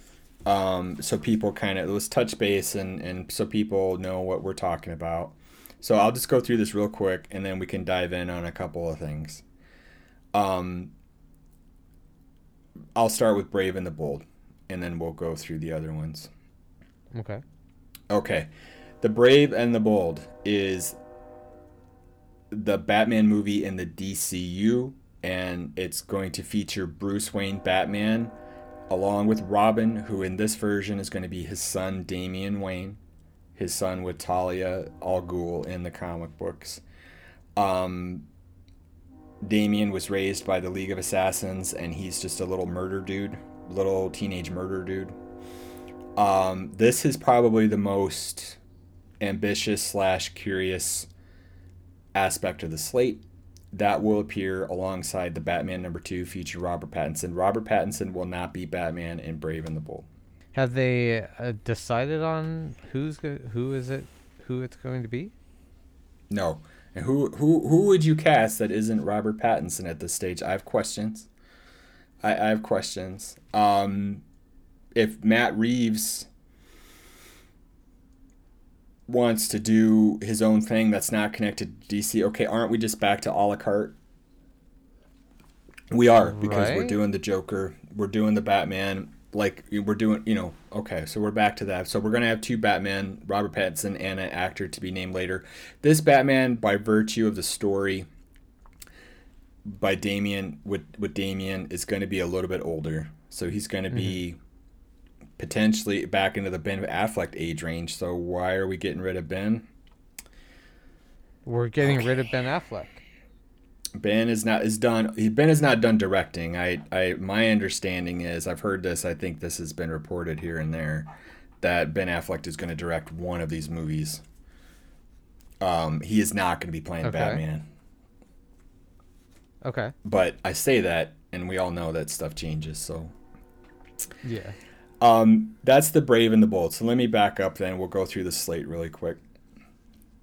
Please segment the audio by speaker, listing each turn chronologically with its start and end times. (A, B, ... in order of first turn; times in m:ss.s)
0:00.4-0:09.4 A
0:10.3-0:10.9 A
0:13.0-0:16.3 A
0:17.1-0:17.4 B
0:18.1-0:18.5 A
0:19.0-0:21.0 A
0:22.5-0:28.4 A
0:28.9-0:33.0 A
0:33.6-0:36.8 A
0:37.6-0:38.3 A
0:39.4-0:45.2 A
0:46.2-0:48.6 A
0:49.2-0:51.1 A
0:52.1-1:00.1 A
1:00.5-1:05.3 B
1:06.3-1:11.3 A
1:12.2-1:14.2 A
1:14.9-1:16.3 A
1:19.1-1:24.0 A
1:25.9-1:38.1 A
1:26.2-1:27.0 B
1:39.6-1:44.4 A
1:43.9-1:44.2 B
1:45.4-1:49.7 A
1:51.4-1:53.0 B
1:54.0-2:04.2 A
2:05.6-2:07.7 A
2:07.0-2:07.4 B
2:09.6-2:09.9 B
2:10.0-2:13.1 A
2:14.2-2:14.6 B
2:15.0-2:19.2 A